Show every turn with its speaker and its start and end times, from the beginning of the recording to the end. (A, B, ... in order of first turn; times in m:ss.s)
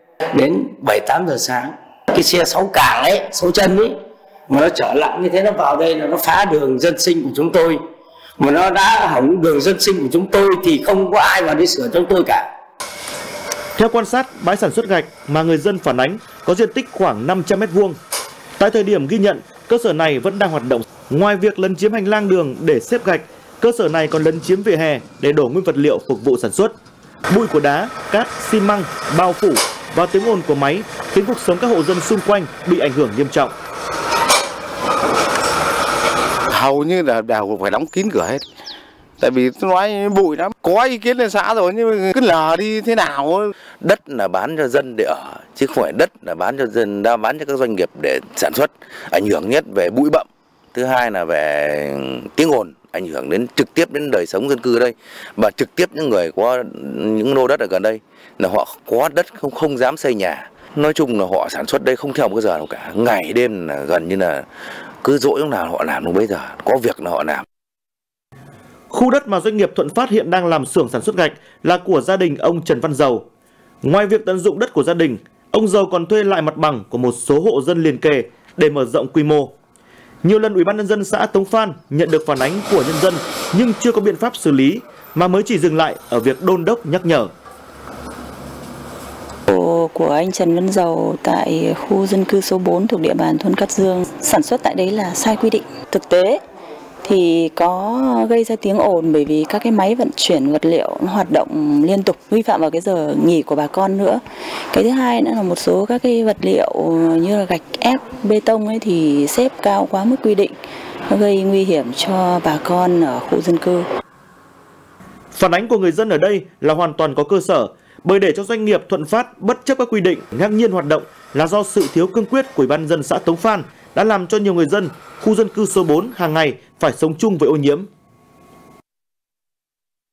0:00.3-0:07.8 A
0:08.4-0:12.5 A
0:13.8-0:18.0 B
0:18.6-0:26.7 B
0:27.3-0:33.5 B
0:36.5-0:38.4 C
0:39.2-0:43.5 C
0:43.8-1:04.4 D
1:05.0-1:07.4 D
1:08.9-1:13.2 B
1:13.8-1:19.5 B
1:20.2-1:27.3 B
1:29.5-1:36.4 E
1:37.0-1:50.5 E
1:51.1-1:53.9 E
1:55.3-2:07.9 B